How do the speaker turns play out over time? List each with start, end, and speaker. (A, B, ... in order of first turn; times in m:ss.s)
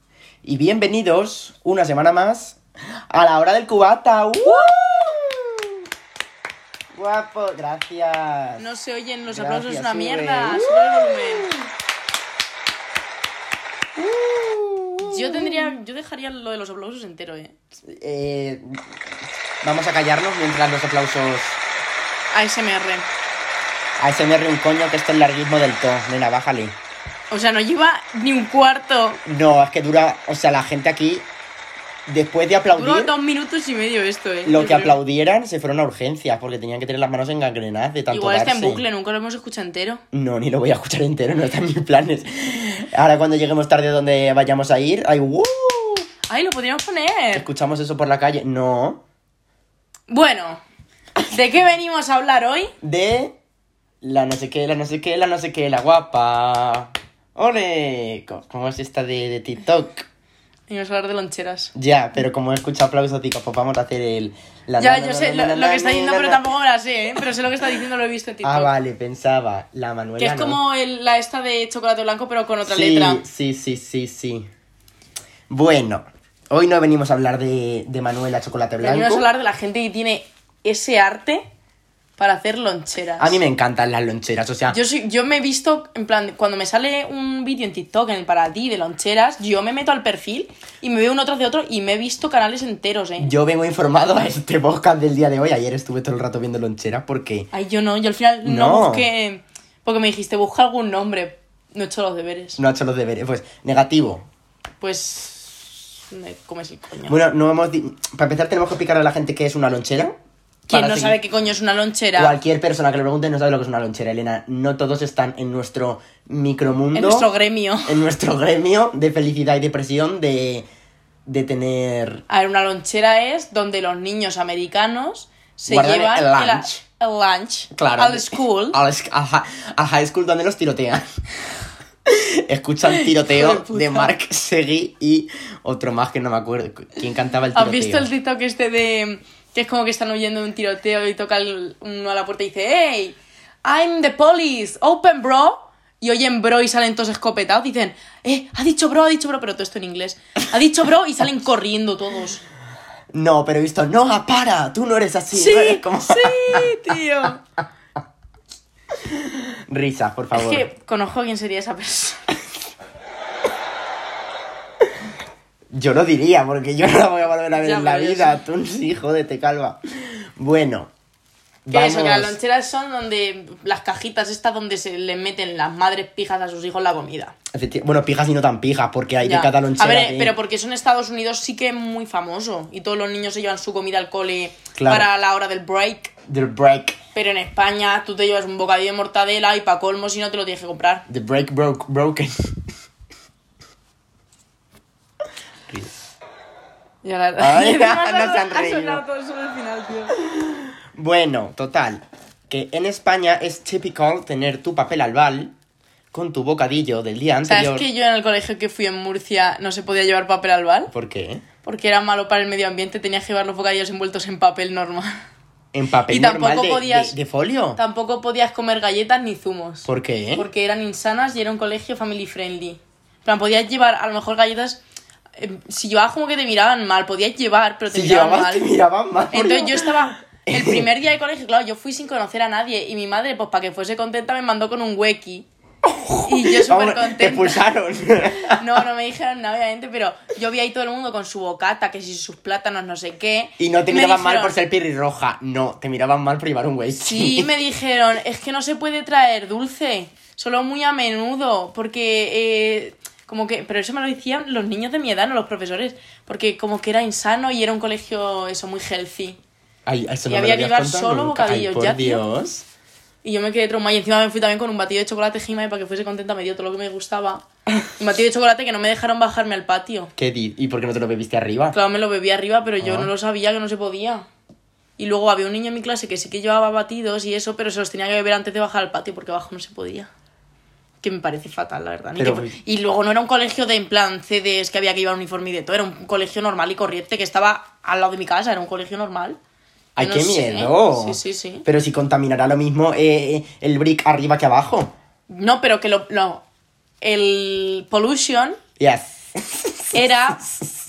0:00.4-0:02.6 A
0:03.1-0:05.8 A
0:04.4-0:04.7 B
0:06.9-0:08.7 A
0:08.6-0:11.5 B
0:09.3-0:11.7 A
0:14.0-0:15.7 A
0:15.0-0:17.6 B
0:17.8-0:18.8 A
0:19.6-0:21.6 A
0:22.3-0:23.1 B
0:24.0-0:26.8 A
0:27.3-0:29.2 B
0:29.2-0:31.3 A
0:32.1-0:33.1 A
0:32.7-0:35.0 B
0:34.4-0:38.8 A
0:38.1-0:40.0 B
0:40.1-0:46.1 A
0:46.3-0:47.5 B
0:47.3-0:49.0 A
0:50.1-0:50.6 B
0:51.3-0:52.7 B
0:52.8-0:53.4 A
0:54.0-1:00.1 A
1:00.7-1:01.7 B
1:01.8-1:06.5 A
1:04.8-1:08.7 B
1:08.4-1:10.6 A
1:10.2-1:13.2 B
1:12.6-1:14.5 A
1:15.5-1:19.2 A
1:18.8-1:21.5 B
1:22.2-1:23.4 B
1:23.2-1:24.8 A
1:24.7-1:33.3 B
1:33.2-1:37.5 A
1:37.5-1:42.6 B
1:38.4-1:39.1 A
1:42.6-1:44.3 A
1:44.8-1:47.2 B
1:47.1-1:50.2 A
1:50.7-1:51.2 A
1:50.7-1:52.4 B
1:52.2-1:57.3 A
1:56.9-1:58.0 B
1:57.9-2:00.7 A
2:01.3-2:02.2 A
2:02.3-2:08.8 B
2:05.7-2:06.8 A
2:07.7-2:11.1 A
2:12.1-2:18.1 A
2:12.9-2:14.1 B
2:17.5-2:32.4 B
2:33.1-2:36.9 A
2:35.3-2:37.4 B
2:39.0-2:40.7 A
2:40.3-2:42.2 B
2:45.7-2:50.9 A
2:47.6-2:48.4 B
2:51.6-2:52.4 A
2:51.7-2:57.4 B
2:57.5-3:00.3 A
2:59.2-3:06.1 B
3:04.8-3:05.1 A
3:06.3-3:07.0 A
3:07.1-3:11.0 B
3:11.1-3:12.6 A
3:17.0-3:20.2 B
3:17.4-3:19.0 A
3:20.2-3:25.5 A
3:26.1-3:27.9 A
3:27.5-3:30.9 B
3:30.9-3:31.4 A
3:31.6-3:35.3 B
3:35.7-3:37.8 A
3:36.1-3:37.2 B
3:37.8-3:44.8 B
3:39.8-3:40.5 A
3:45.4-3:48.7 B
3:47.9-3:50.9 A
3:49.3-3:55.5 B
3:55.8-3:58.7 A
3:56.2-3:57.6 B
3:58.4-4:04.6 B
4:03.6-4:07.5 A
4:07.0-4:19.4 B
4:19.9-4:22.6 A
4:20.3-4:22.2 B
4:23.2-4:30.1 B
4:30.2-4:31.8 A
4:31.7-4:34.3 B
4:32.8-4:33.1 A
4:35.0-4:40.1 B
4:41.0-4:49.4 B
4:42.2-4:42.6 A
4:50.0-4:54.9 A
4:50.0-4:51.7 B
4:55.3-4:56.4 B
4:57.0-4:58.6 B
4:58.8-5:00.7 A
4:59.9-5:00.5 B